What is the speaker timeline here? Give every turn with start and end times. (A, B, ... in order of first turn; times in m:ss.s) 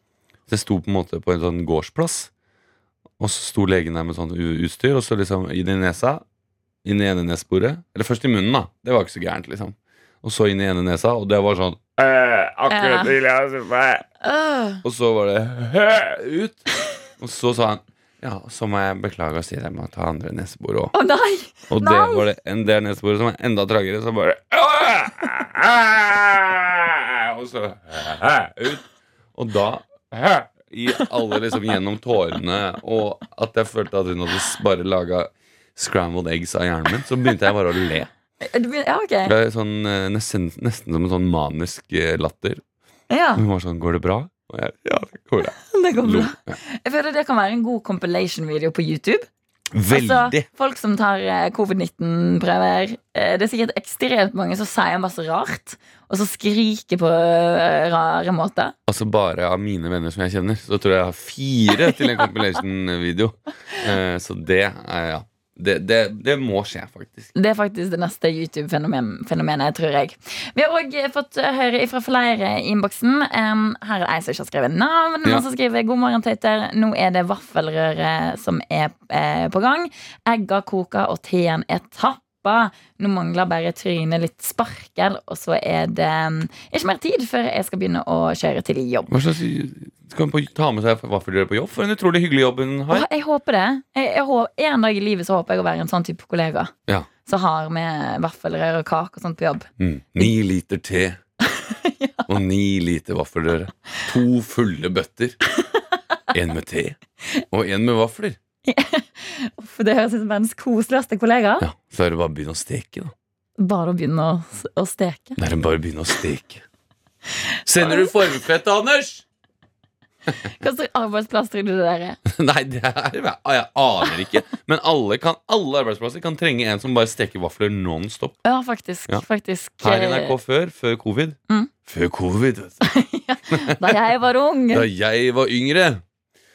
0:00.5-0:02.3 A
0:03.2-0:06.2 A
0:06.8-0:14.0 A
0:12.7-0:13.1 B
0:14.2-0:14.8 B
0:14.8-0:16.6 A
0:17.2-0:20.9 A
0:20.9-0:22.2 B
0:21.7-0:28.8 A
0:29.3-0:38.1 A
0:38.4-0:39.3 B
0:39.2-0:42.6 A
0:43.1-0:43.4 B
0:43.4-0:46.6 A
0:45.6-0:49.3 B
0:49.7-0:50.4 A
0:49.9-0:58.7 B
0:58.9-1:07.3 A
1:07.3-1:29.1 B
1:29.1-1:33.0 A
1:32.9-1:36.7 B
1:37.2-1:39.6 B
1:39.8-1:41.2 A
1:41.5-1:42.3 B
1:42.3-1:45.4 A
1:46.3-1:47.0 A
1:47.5-1:48.4 A
1:48.6-1:51.6 B
1:51.6-1:53.1 A
1:53.6-1:55.4 B
1:55.4-1:56.6 A
1:57.6-1:59.2 A
1:57.8-1:58.1 B
2:00.6-2:02.2 B
2:02.3-2:08.4 A
2:08.4-2:10.4 B
2:09.8-2:12.8 A
2:12.8-2:14.9 B
2:13.5-2:14.0 A
2:14.7-2:16.0 A